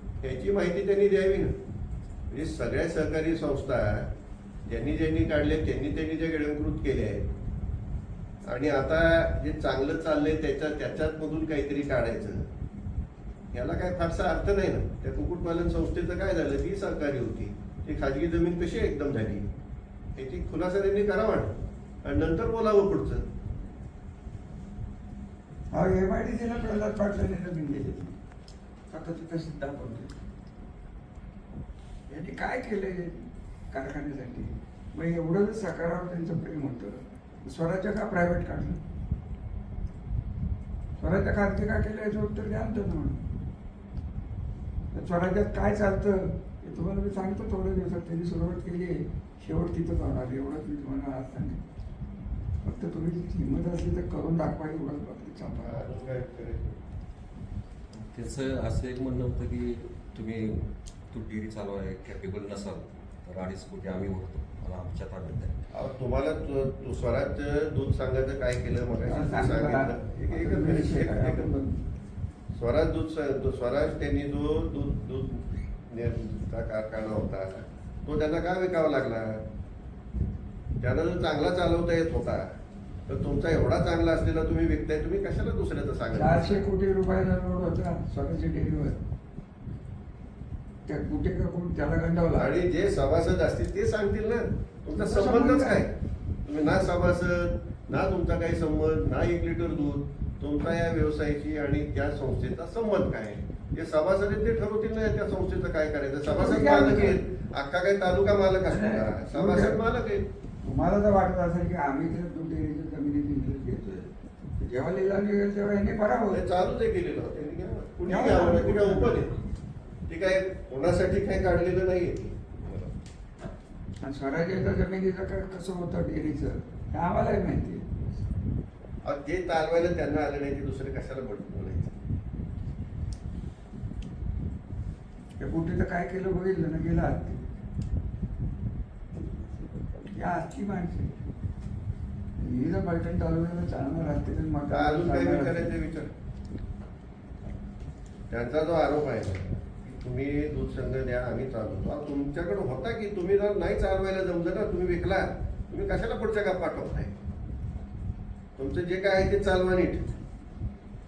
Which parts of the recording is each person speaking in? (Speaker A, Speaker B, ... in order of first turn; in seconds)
Speaker A: 0.2-1.5, 2.3-4.1, 4.7-7.3, 8.5-12.5, 13.5-19.5, 20.2-21.5, 22.0-23.2, 55.6-56.8, 65.7-71.5, 72.5-79.4, 80.8-82.5, 83.1-86.7, 92.4-95.9, 96.5-110.2, 116.3-119.3, 120.1-122.6, 129.0-132.0, 144.7-146.1, 148.3-157.1, 158.6-160.1
Speaker B: 25.7-28.2, 28.9-30.1, 32.1-38.8, 41.0-43.2, 44.9-51.6, 52.6-55.8, 69.1-71.8, 86.1-89.0, 90.9-92.6, 94.9-95.8, 106.3-107.2, 108.7-109.8, 110.6-116.5, 118.1-119.3, 124.0-128.0, 135.4-137.4, 140.1-141.2, 142.4-145.7
Speaker C: 57.9-65.6